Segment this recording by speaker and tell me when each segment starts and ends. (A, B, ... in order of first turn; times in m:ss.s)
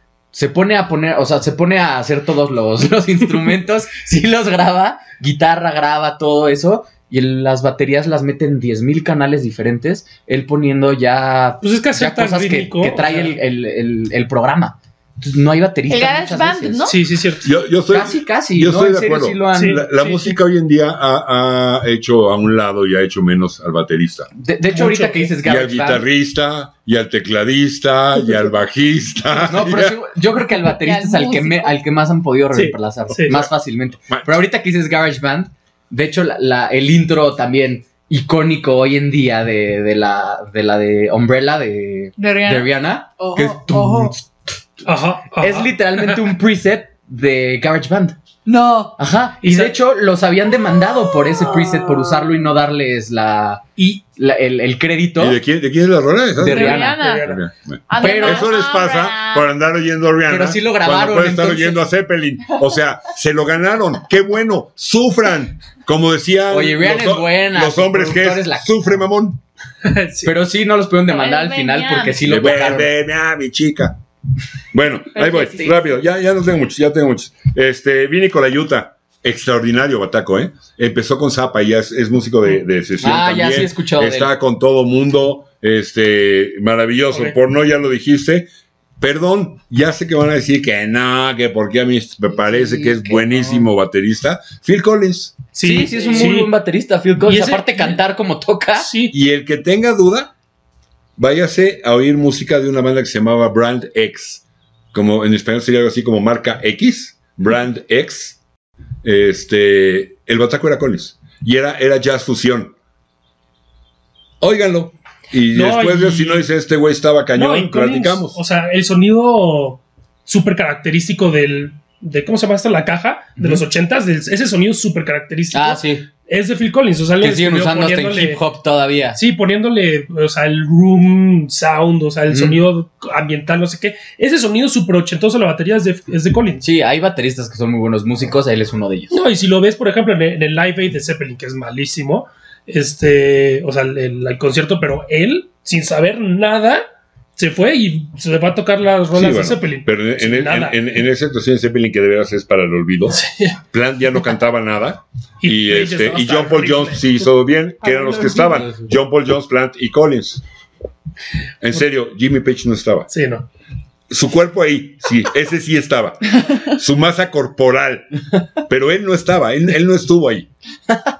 0:00.3-0:16.9 A
0:11.6-0:13.4 B
0:15.9-0:17.0 C
0:16.9-0:17.5 B
0:17.4-0:24.3 D
0:17.9-0:19.8 A
0:19.6-0:20.3 B
0:24.3-0:26.0 A
0:24.7-0:25.3 B
0:25.4-0:30.0 D
0:29.5-0:44.3 A
0:30.6-0:31.7 C
0:32.5-0:33.4 B
0:34.1-0:34.4 D
0:42.2-0:44.1 C
0:44.8-0:46.2 B
0:45.4-0:48.2 A
0:48.4-0:49.0 C
0:49.0-0:53.6 A
0:49.4-0:49.8 B
0:51.3-0:52.2 C
0:54.2-0:55.4 A
0:55.2-1:09.4 D
0:56.4-0:57.0 A
0:56.5-0:57.2 C
0:56.5-0:57.4 B
0:57.9-0:59.5 C
0:58.0-0:58.5 A
1:00.3-1:01.8 A
1:06.5-1:08.7 A
1:09.8-1:10.3 B
1:10.2-1:12.9 A
1:11.1-1:12.3 C
1:12.2-1:14.0 D
1:14.7-1:28.5 D
1:15.1-1:15.9 C
1:23.0-1:24.3 A
1:29.0-1:35.4 D
1:32.3-1:33.6 A
1:35.5-1:36.5 B
1:35.6-1:38.9 A
1:35.9-1:36.2 C
1:37.2-1:38.0 B
1:38.8-1:39.1 B
1:39.1-1:40.3 D
1:41.2-1:48.4 D
1:49.0-1:52.7 D
1:54.4-1:58.4 D
1:55.5-1:56.4 B
1:57.3-2:08.4 B
2:03.4-2:03.6 A
2:05.5-2:06.0 A
2:07.2-2:09.2 A
2:09.2-2:16.6 B
2:12.3-2:12.6 A
2:16.6-2:19.2 A
2:19.1-2:26.8 B
2:27.4-2:30.8 B
2:29.1-2:40.4 D
2:33.1-2:33.6 B
2:35.4-2:37.2 B
2:38.5-2:38.9 A
2:41.6-2:43.1 D
2:43.1-2:43.4 B
2:44.1-2:50.5 D